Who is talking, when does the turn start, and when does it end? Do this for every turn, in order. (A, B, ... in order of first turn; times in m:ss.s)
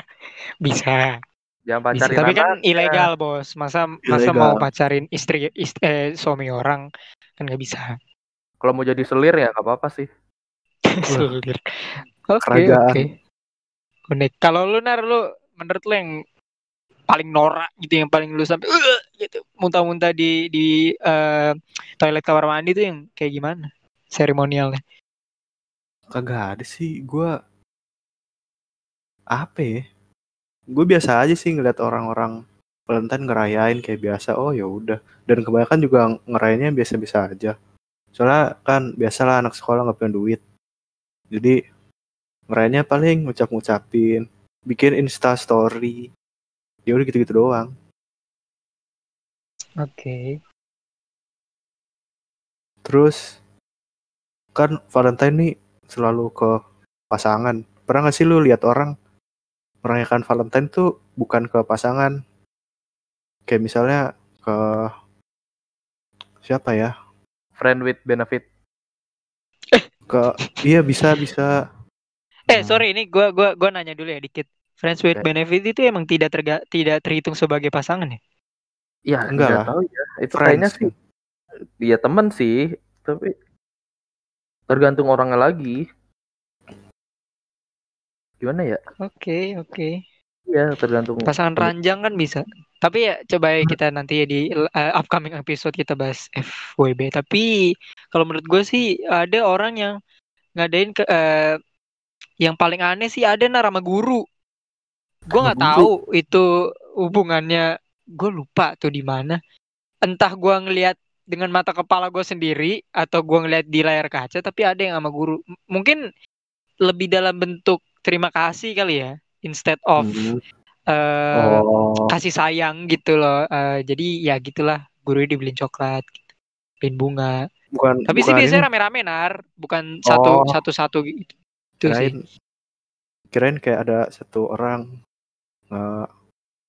0:00.6-0:01.2 A
0:01.7-0:03.0 B
0:02.0-0:06.8 A
0:04.1-0:04.6 C
0:07.4-0:07.9 A
0:08.6-0:10.1 B
0:10.9-0:13.1 A
0:12.4-0:13.0 C
0:14.1-0:16.1 A
0:17.1-0:23.6 A
0:24.2-0:24.8 A
0:26.2-0:27.3 C
0:29.4-0:29.7 C
0:30.7-0:32.3 C
0:32.9-0:37.5 C
0:38.2-0:40.4 C
0:42.5-0:46.0 C
0:46.9-0:47.7 C
0:49.8-0:50.2 A
0:52.9-0:53.2 C
0:54.6-0:56.5 C
0:57.1-0:58.9 C
0:59.8-1:02.1 C
1:03.5-1:04.9 C
1:06.4-1:06.9 C
1:07.6-1:08.4 B
1:10.1-1:11.5 C
1:12.5-1:18.2 A
1:12.5-1:12.8 C
1:19.1-1:20.9 B
1:19.3-1:19.7 C
1:20.3-1:20.9 C
1:21.8-1:22.5 B
1:23.0-1:23.3 B
1:24.7-1:25.8 B
1:28.4-1:28.8 B
1:29.0-1:30.0 A
1:30.5-1:31.7 B
1:31.3-1:37.5 A
1:38.1-1:39.9 A
1:40.6-1:41.5 A
1:42.4-1:44.2 A
1:45.3-1:46.4 A
1:45.4-1:45.9 C
1:47.0-1:47.7 A
1:48.2-1:49.4 A
1:50.1-1:56.0 A
1:56.9-2:00.3 A
2:00.0-2:00.4 C
2:00.9-2:06.2 A
2:01.4-2:02.1 C
2:06.8-2:07.4 A
2:07.8-2:08.7 C
2:08.1-2:12.1 A
2:10.1-2:10.5 C
2:11.9-2:12.1 C
2:13.3-2:14.8 C
2:15.7-2:16.1 C